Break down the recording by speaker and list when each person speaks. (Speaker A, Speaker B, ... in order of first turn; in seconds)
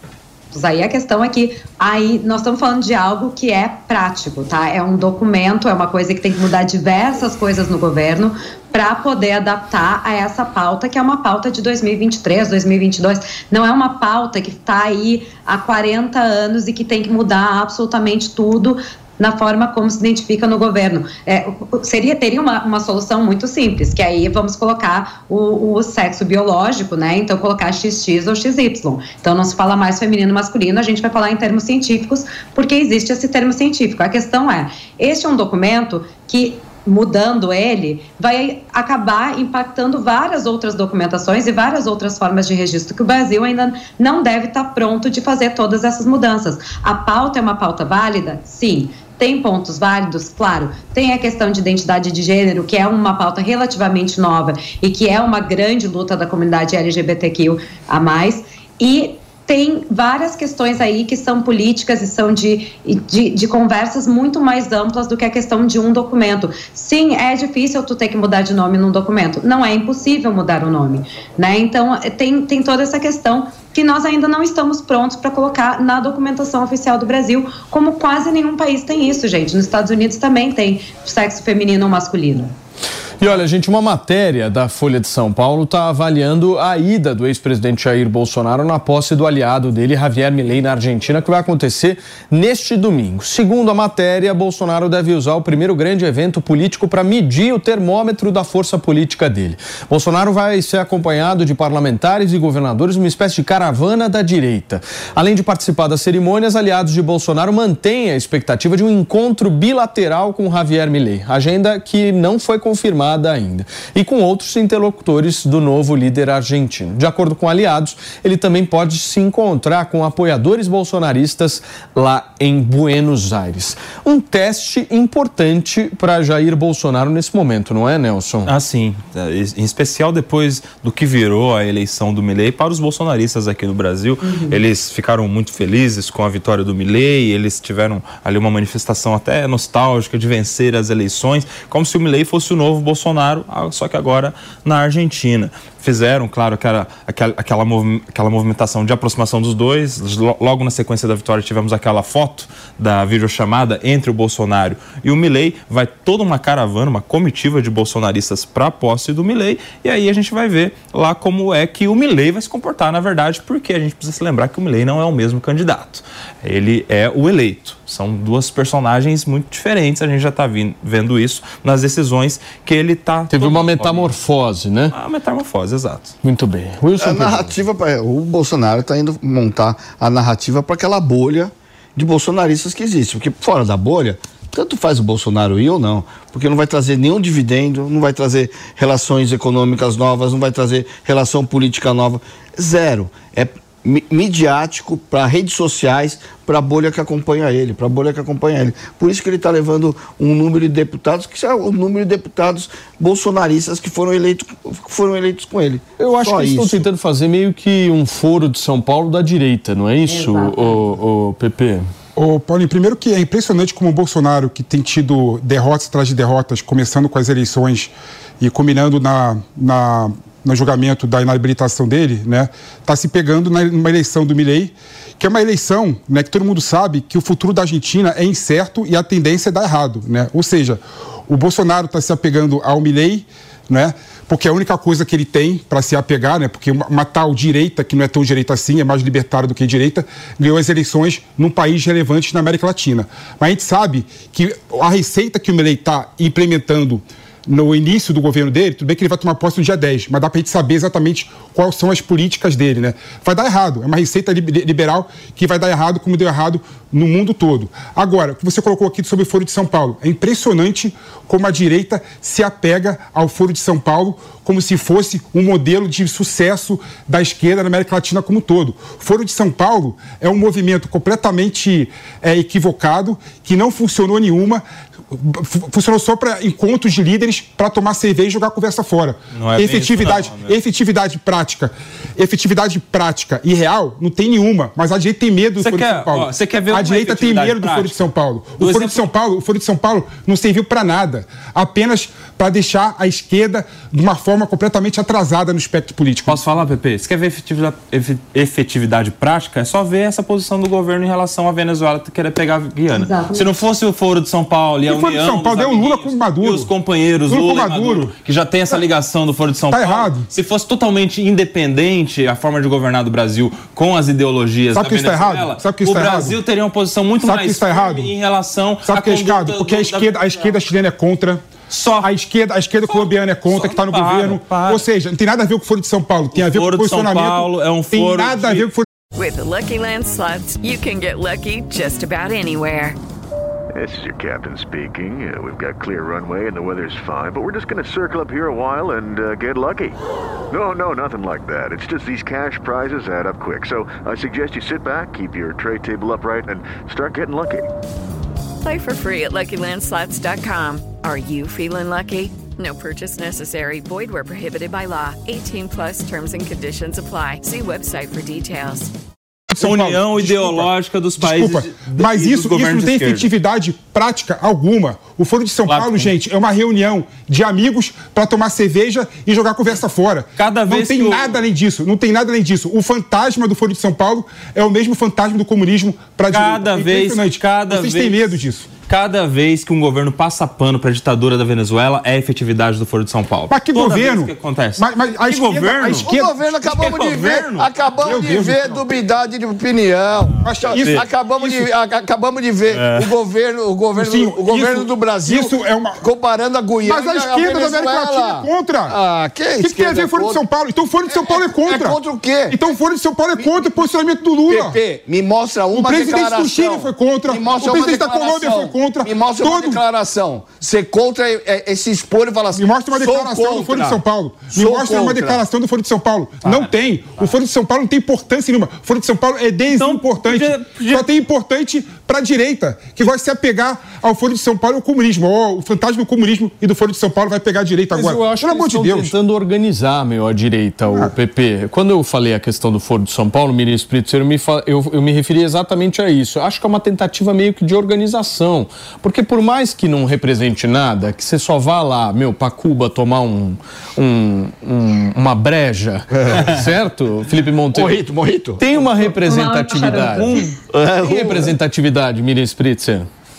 Speaker A: 0.5-82.5, 134.2-134.6, 210.1-210.8, 302.9-303.6, 449.1-450.5
Speaker B: 83.2-128.5, 173.3-174.9, 176.2-177.6, 206.0-211.9, 427.9-448.0, 448.6-450.4, 451.0-453.1
Speaker C: 128.5-174.1, 174.9-176.2, 279.3-280.6, 285.6-289.1, 296.3-320.6, 321.7-322.1, 322.9-324.8, 326.3-328.7, 359.6-363.3, 365.7-366.1, 370.4-371.4, 376.3-387.7, 392.7-393.1, 419.7-421.0
Speaker D: 177.0-206.9, 385.9-400.4, 401.1-402.6, 403.4-403.8, 404.5-414.0, 414.5-415.4, 446.1-446.5, 447.7-448.6, 450.1-451.6
Speaker E: 212.2-296.4, 304.9-306.7, 307.3-308.1, 309.7-310.3, 314.7-316.4, 317.2-318.1, 318.9-328.9, 359.5-378.7, 383.5-386.5, 388.0-388.8, 390.4-391.7, 394.0-396.0, 396.8-398.9, 399.6-402.0, 402.5-404.8, 405.7-409.8, 412.5-429.1
Speaker F: 329.1-333.0, 348.6-358.9
Speaker G: 333.7-340.0, 340.5-347.6